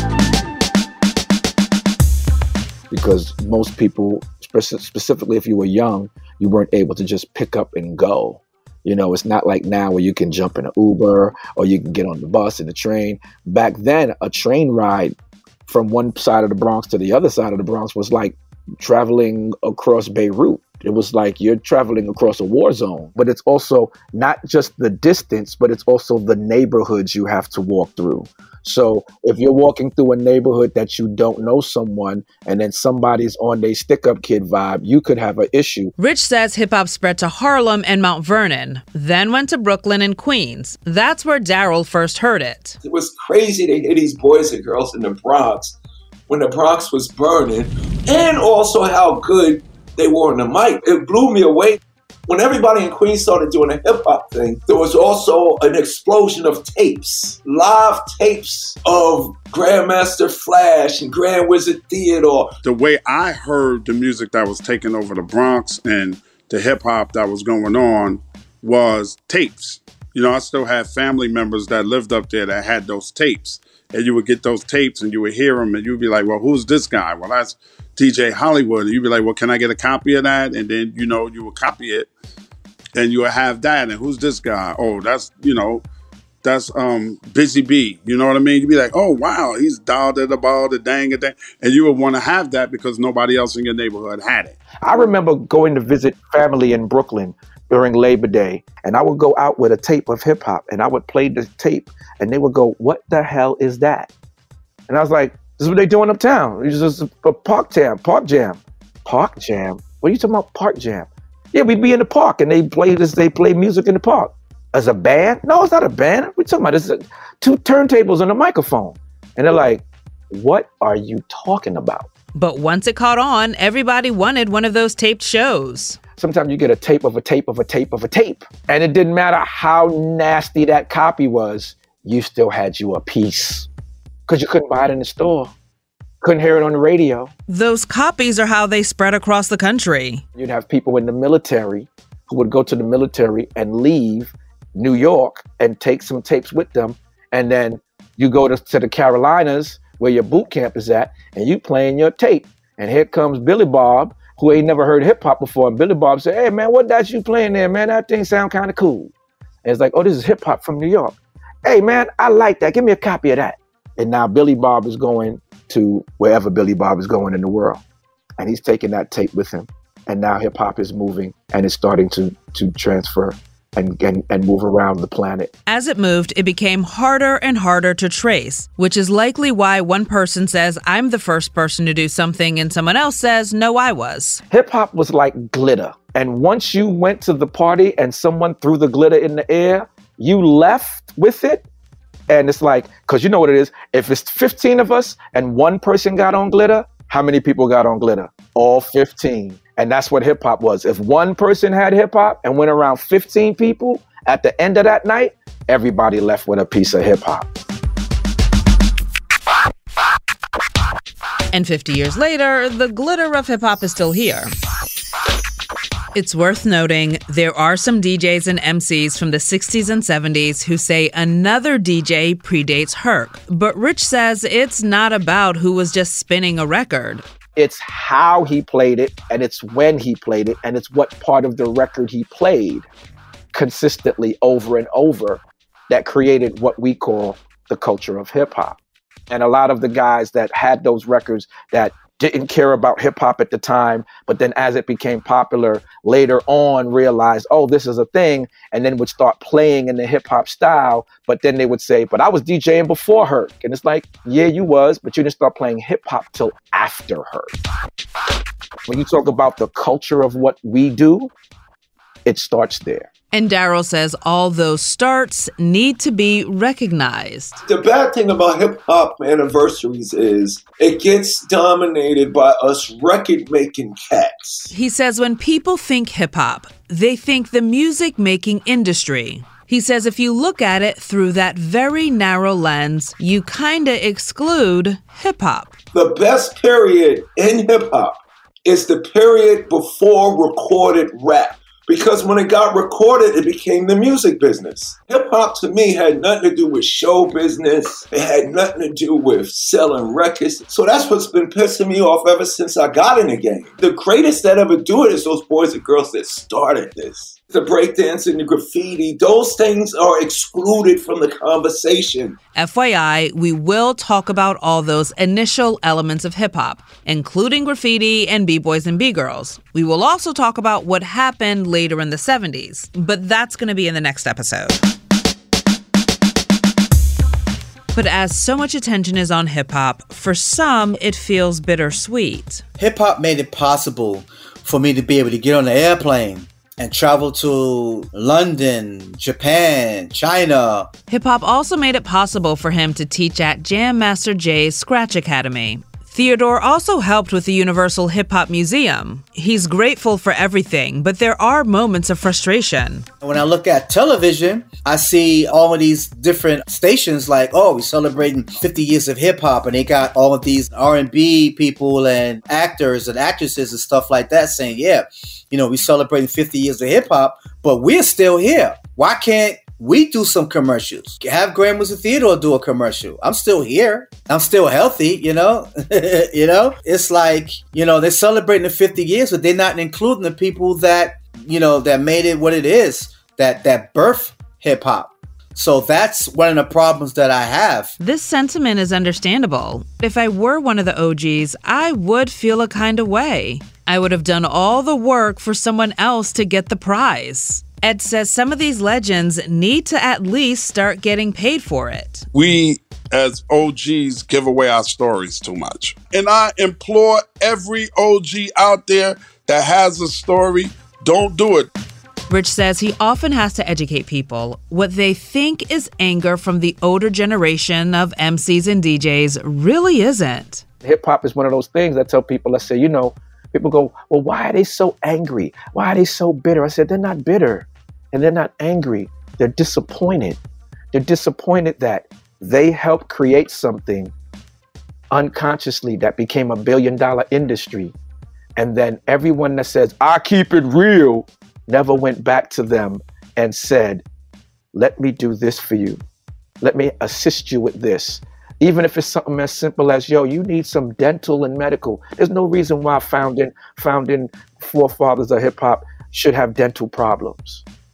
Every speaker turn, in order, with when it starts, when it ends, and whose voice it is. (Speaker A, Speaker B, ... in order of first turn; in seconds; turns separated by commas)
Speaker A: 2.9-15.1, Speaker A: 15.7-35.9, Speaker B: 36.0-42.8, Speaker C: 42.8-45.8, Speaker C: 46.3-62.5, Speaker D: 62.6-82.1, Speaker D: 83.0-85.8, Speaker D: 86.4-94.5, Speaker A: 94.8-104.1, Speaker A: 104.9-122.1, Speaker B: 122.3-126.0, Speaker A: 126.2-133.7, Speaker A: 134.3-135.5, Speaker A: 136.2-137.3, Speaker B: 137.5-140.2, Speaker A: 140.3-159.1, Speaker A: 159.6-167.8, Speaker A: 168.4-175.5, Speaker B: 175.7-184.4, Speaker A: 184.5-191.6, Speaker A: 192.3-207.5, Speaker B: 211.5-214.5, Speaker B: 216.1-227.2, Speaker A: 227.6-232.8, Speaker A: 233.5-238.8, Speaker A: 239.3-257.5, Speaker A: 258.9-261.3, Speaker A: 262.2-263.1, Speaker B: 263.3-267.6, Speaker C: 267.7-274.7, Speaker B: 274.7-285.7, Speaker C: 285.9-312.4, Speaker B: 312.5-324.8, Speaker B: 327.9-332.6, Speaker E: 332.8-340.9, Speaker B: 341.1-353.1, Speaker E: 353.2-387.9, Speaker B: 388.0-402.2, Speaker D: 402.3-411.7, Speaker B: 412.3-420.6, Speaker A: 420.8-430.4, Speaker A: 430.9-434.1, Speaker A: 435.1-437.9, Speaker A: 438.6-444.0, Speaker A: 444.7-446.0, Speaker A: 446.6-457.6